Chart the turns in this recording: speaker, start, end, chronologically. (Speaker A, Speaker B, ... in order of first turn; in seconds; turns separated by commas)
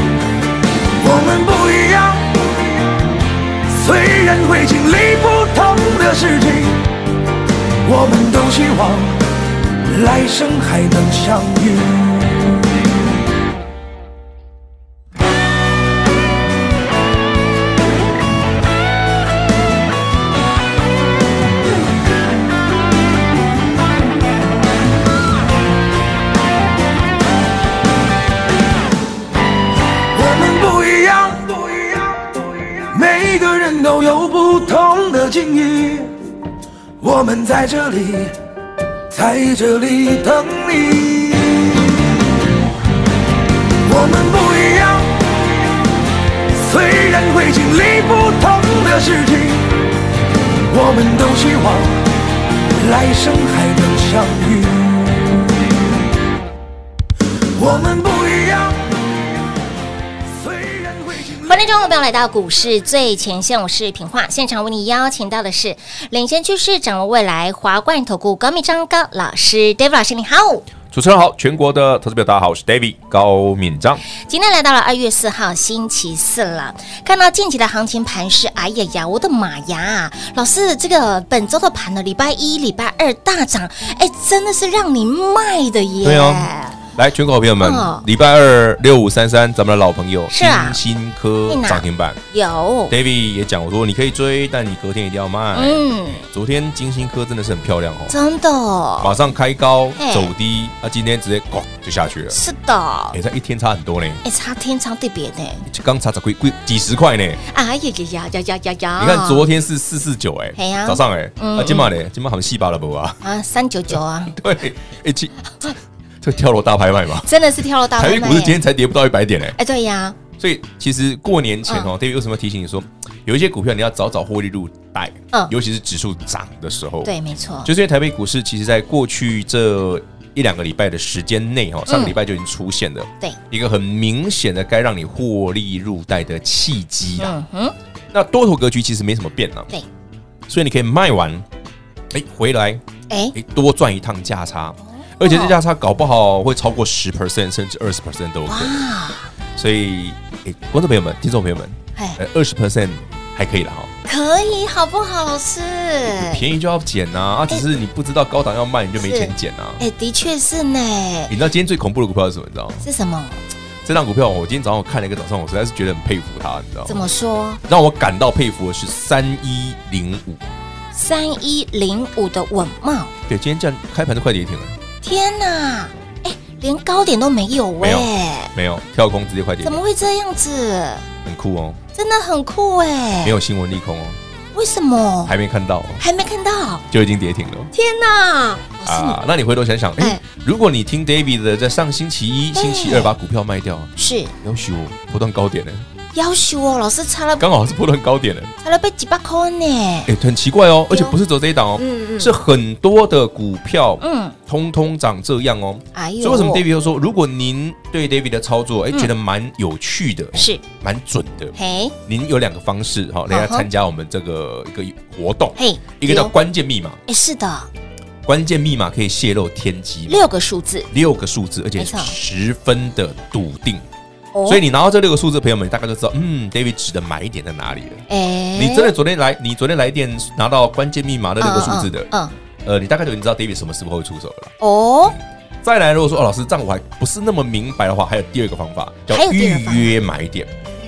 Speaker A: 1.0-2.6, Speaker A: 3.7-6.9, Speaker A: 7.8-9.2, Speaker A: 9.8-12.6, Speaker A: 30.1-36.1, Speaker A: 37.0-38.3, Speaker A: 39.1-41.9, Speaker A: 43.8-45.3, Speaker A: 46.5-49.8, Speaker A: 50.7-52.0, Speaker A: 52.7-55.5, Speaker A: 57.5-59.0, Speaker A: 60.3-61.7, Speaker B: 61.4-70.7, Speaker C: 70.9-74.0, Speaker B: 74.2-86.8, Speaker C: 86.0-92.2, Speaker B: 87.6-88.0, Speaker B: 90.3-90.8, Speaker B: 91.5-92.9, Speaker C: 92.9-98.2, Speaker B: 95.5-96.3, Speaker B: 98.1-99.1, Speaker C: 99.0-102.4, Speaker B: 100.0-100.3, Speaker B: 102.3-103.2, Speaker C: 103.1-104.2, Speaker B: 104.2-105.7, Speaker C: 105.7-107.4, Speaker B: 107.4-109.5, Speaker C: 109.0-113.2, Speaker B: 110.5-111.9, Speaker B: 113.2-114.3, Speaker C: 114.3-117.3, Speaker B: 117.2-118.6, Speaker C: 118.0-119.6, Speaker B: 119.5-120.2, Speaker C: 120.4-127.1, Speaker B: 127.0-127.7, Speaker C: 127.6-137.3, Speaker B: 131.9-132.2, Speaker B: 137.2-137.7, Speaker C: 138.1-139.7, Speaker C: 140.5-141.4, Speaker C: 142.1-142.8, Speaker B: 143.1-143.3, Speaker C: 143.3-148.8, Speaker B: 144.9-145.6, Speaker B: 148.5-149.3, Speaker C: 149.6-153.9, Speaker B: 154.0-156.4, Speaker C: 156.1-159.8, Speaker B: 159.0-161.3, Speaker C: 161.3-162.8, Speaker B: 162.8-163.4, Speaker C: 163.8-167.0, Speaker B: 166.9-167.6, Speaker C: 167.6-170.5, Speaker B: 170.9-173.1, Speaker C: 173.3-174.8, Speaker B: 175.0-178.5, Speaker C: 177.8-179.8, Speaker B: 179.6-181.1, Speaker C: 181.2-181.8, Speaker B: 181.9-183.4, Speaker C: 183.2-184.2, Speaker B: 184.5-185.3, Speaker C: 185.2-186.0, Speaker B: 186.0-186.8, Speaker C: 186.9-187.7, Speaker B: 187.7-189.2, Speaker C: 188.8-193.9, Speaker B: 192.6-193.1, Speaker B: 193.9-194.3, Speaker C: 194.4-195.8, Speaker B: 196.1-197.4, Speaker C: 197.4-198.5, Speaker B: 198.6-200.1, Speaker C: 200.1-217.0, Speaker B: 200.9-201.2, Speaker B: 201.8-202.3, Speaker B: 204.0-204.3, Speaker B: 205.9-206.6, Speaker B: 210.3-210.6, Speaker B: 211.6-211.9, Speaker B: 213.3-213.7, Speaker B: 215.6-216.3, Speaker B: 217.1-217.7, Speaker C: 218.2-220.3, Speaker B: 220.1-220.9, Speaker C: 220.9-223.9, Speaker B: 221.8-222.1, Speaker B: 224.3-224.6, Speaker C: 224.4-228.0, Speaker B: 228.1-228.9, Speaker C: 228.5-232.1, Speaker B: 231.4-232.3, Speaker C: 232.6-234.5, Speaker B: 234.6-235.2, Speaker C: 235.1-240.5, Speaker B: 239.1-239.9